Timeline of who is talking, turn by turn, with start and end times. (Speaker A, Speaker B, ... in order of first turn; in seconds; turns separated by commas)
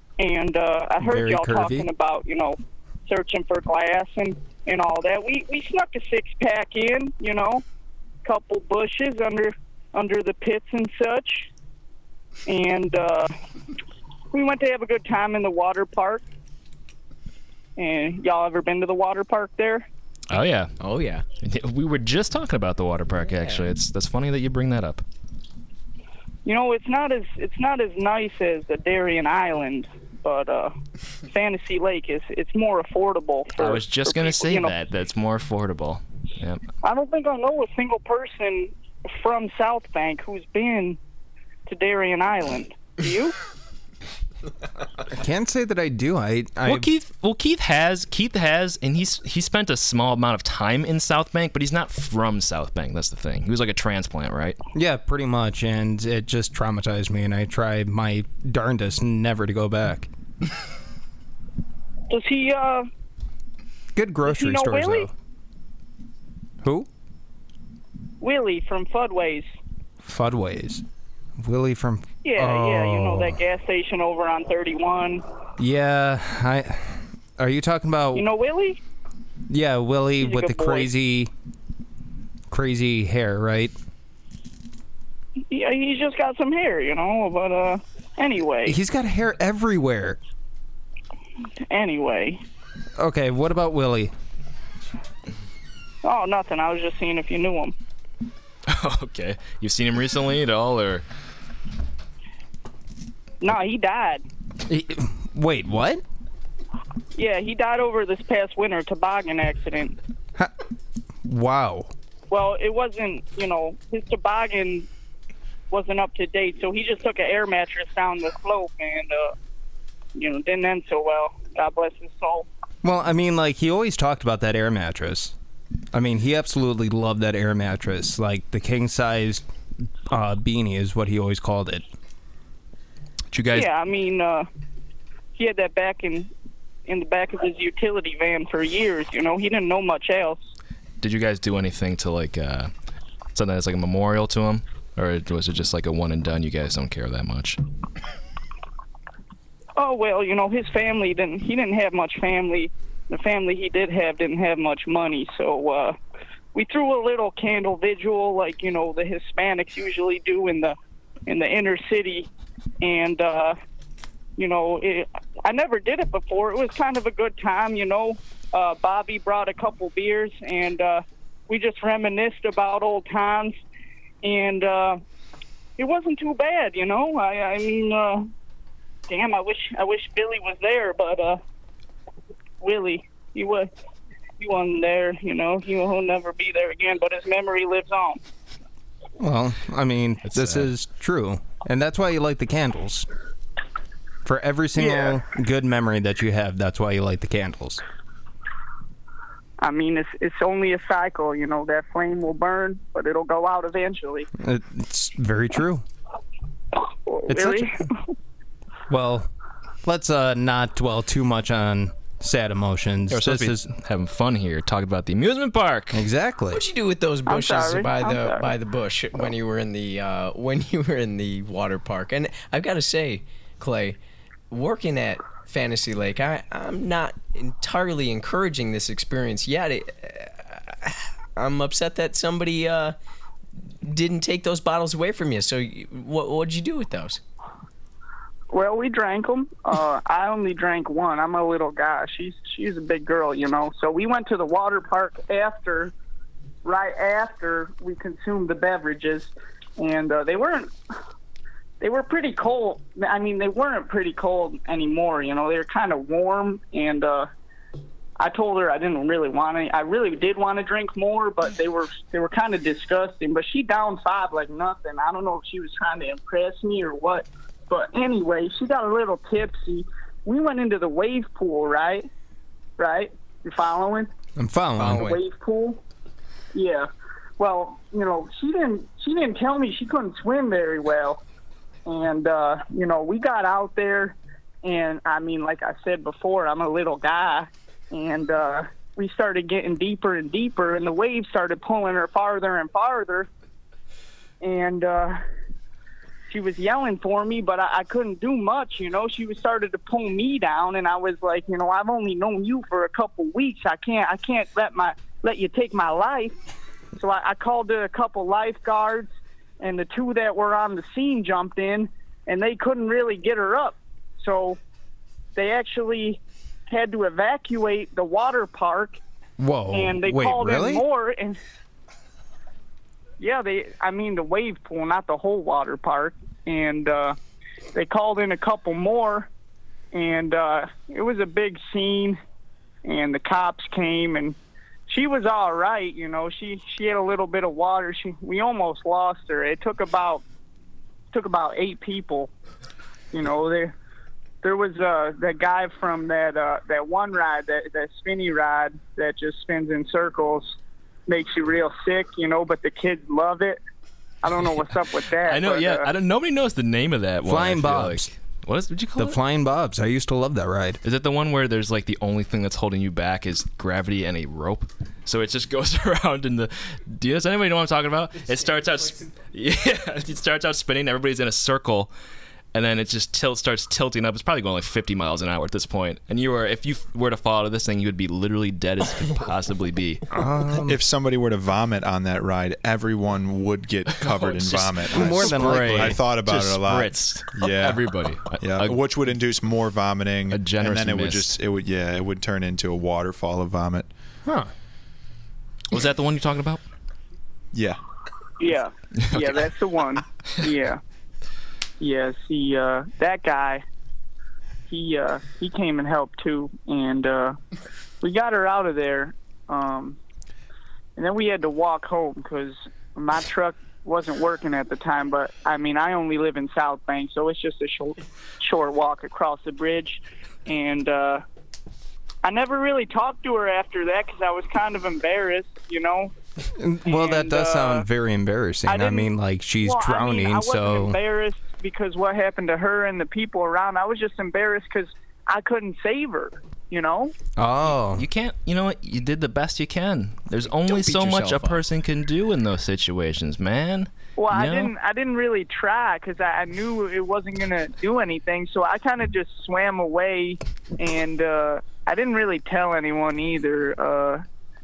Speaker A: 0.2-7.6, Speaker B: 1.0-1.9, Speaker A: 8.2-11.5, Speaker A: 12.4-13.3, Speaker A: 14.3-16.2, Speaker A: 17.8-19.9, Speaker C: 20.3-20.7, Speaker D: 20.8-21.2, Speaker C: 21.4-25.0, Speaker A: 26.4-30.7, Speaker A: 31.3-34.7, Speaker C: 33.5-36.6, Speaker A: 36.8-41.0, Speaker A: 41.7-43.3, Speaker B: 45.1-46.9, Speaker C: 46.6-54.6, Speaker B: 54.7-60.1, Speaker A: 62.1-62.9, Speaker B: 63.9-65.1, Speaker A: 64.2-65.1, Speaker B: 66.6-66.9, Speaker A: 68.2-69.5, Speaker B: 70.0-70.8, Speaker B: 71.4-73.4, Speaker A: 72.2-75.2, Speaker B: 75.6-78.3, Speaker A: 78.1-78.8, Speaker B: 79.5-81.3, Speaker A: 80.2-80.9, Speaker B: 82.5-83.7, Speaker A: 85.5-88.8, Speaker B: 88.6-90.2, Speaker A: 91.7-92.4, Speaker B: 93.0-94.1, Speaker A: 96.0-97.7, Speaker C: 98.7-101.0, Speaker A: 103.4-104.2, Speaker B: 104.7-106.0, Speaker A: 107.1-109.9, Speaker B: 111.2-111.9, Speaker A: 112.3-114.9, Speaker A: 115.7-119.3, Speaker A: 120.1-122.5, Speaker B: 122.8-125.3, Speaker B: 125.9-129.4, Speaker B: 130.1-131.8, Speaker C: 133.3-133.7, Speaker A: 133.5-134.5, Speaker A: 135.4-136.3, Speaker A: 136.8-140.5, Speaker C: 141.0-142.7, Speaker C: 143.3-147.6, Speaker A: 149.8-156.0, Speaker A: 156.5-160.8, Speaker A: 161.3-162.3, Speaker A: 162.8-163.5, Speaker A: 164.4-173.6, Speaker A: 174.2-175.0, Speaker A: 175.8-178.3, Speaker A: 179.1-181.4, Speaker A: 182.6-183.7, Speaker A: 184.4-188.2, Speaker B: 189.2-193.1, Speaker C: 190.2-190.7, Speaker B: 194.2-197.8, Speaker A: 194.8-195.2, Speaker A: 199.6-204.3, Speaker B: 204.4-205.8, Speaker A: 207.1-207.9, Speaker B: 207.3-207.7, Speaker B: 208.9-209.3, Speaker B: 209.8-213.7, Speaker C: 213.1-216.0, Speaker B: 215.9-216.6, Speaker D: 216.5-224.0, Speaker A: 217.3-218.5, Speaker D: 224.5-232.9, Speaker D: 233.8-237.2, Speaker A: 238.5-245.9, Speaker A: 246.6-250.7, Speaker A: 251.8-257.3, Speaker A: 258.2-272.1, Speaker A: 272.8-274.1, Speaker B: 274.4-275.2, Speaker D: 274.8-275.0, Speaker A: 274.9-275.8, Speaker A: 276.5-276.9, Speaker A: 277.4-281.2, Speaker A: 281.9-293.3, Speaker A: 294.4-295.2, Speaker A: 296.3-306.4, Speaker A: 306.9-314.6, Speaker A: 315.3-319.0, Speaker B: 319.4-320.8, Speaker A: 319.7-321.4, Speaker A: 323.2-327.2, Speaker A: 327.7-329.3, Speaker A: 329.9-332.2, Speaker A: 332.8-334.4, Speaker A: 334.9-340.2, Speaker A: 341.1-342.3, Speaker A: 343.1-343.7, Speaker A: 344.4-353.6, Speaker A: 354.2-355.9, Speaker C: 355.2-359.2, Speaker B: 357.2-358.1, Speaker B: 359.0-360.8, Speaker C: 360.8-371.9, Speaker C: 372.5-380.0, Speaker B: 380.1-380.8, Speaker E: 380.6-393.9, Speaker C: 383.9-388.8, Speaker B: 384.9-386.0, Speaker C: 390.3-391.3, Speaker B: 394.2-394.5, Speaker C: 395.7-396.6, Speaker E: 397.5-397.8, Speaker A: 398.4-400.8, Speaker C: 399.0-399.4, Speaker A: 401.8-403.6, Speaker A: 404.7-407.4, Speaker A: 408.0-410.0, Speaker A: 410.9-421.2, Speaker A: 422.2-426.1, Speaker B: 426.5-431.0, Speaker A: 426.9-427.8, Speaker A: 428.7-437.1, Speaker B: 437.4-438.1, Speaker C: 437.9-444.7, Speaker D: 440.6-441.6, Speaker A: 444.2-454.2